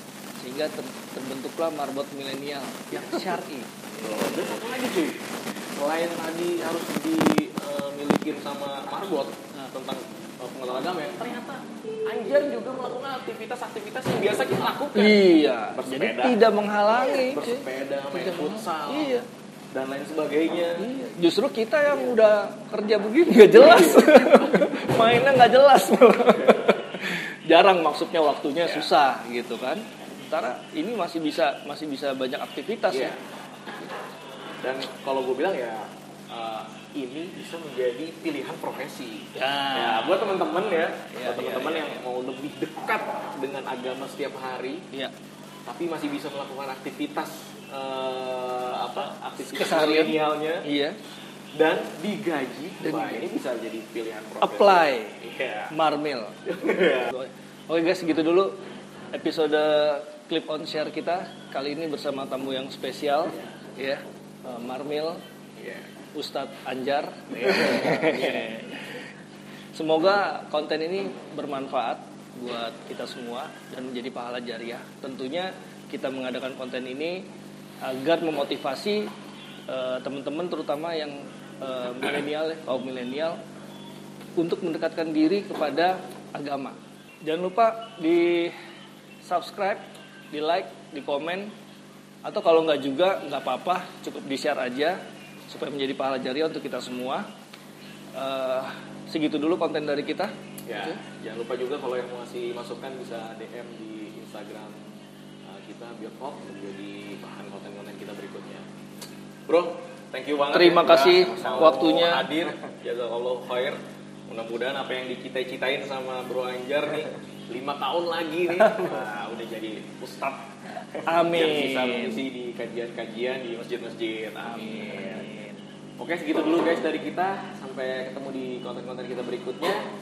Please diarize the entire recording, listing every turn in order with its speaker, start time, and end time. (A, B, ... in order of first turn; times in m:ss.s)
0:00.4-0:04.4 A
0:03.0-0:03.2 B
0:04.0-0:16.4 B
0:14.9-0:19.2 A
0:17.1-0:19.2 B
0:19.7-0:20.9 B
0:20.8-0:33.1 A
0:23.5-0:24.8 B
0:32.9-0:33.2 B
0:34.6-0:44.8 B
0:39.3-0:40.2 A
0:41.1-0:42.0 A
0:45.6-0:50.7 B
0:49.4-0:51.0 A
0:51.6-0:55.7 B
0:52.8-0:53.2 A
0:54.4-0:56.4 A
0:56.4-0:57.1 B
0:57.1-0:58.6 A
0:59.1-1:05.2 A
1:05.6-1:05.9 B
1:06.1-1:09.1 A
1:07.4-1:08.4 B
1:09.7-1:17.3 A
1:17.8-1:19.1 A
1:19.7-1:23.4 A
1:24.4-1:28.6 A
1:29.2-1:31.5 A
1:32.2-1:37.3 A
1:38.1-1:41.0 A
1:40.7-1:44.8 B
1:45.5-1:48.6 B
1:49.5-2:00.5 B
1:50.5-1:52.3 A
2:01.0-2:02.2 A
2:01.3-2:05.3 B
2:04.4-2:05.6 A
2:06.0-2:09.8 B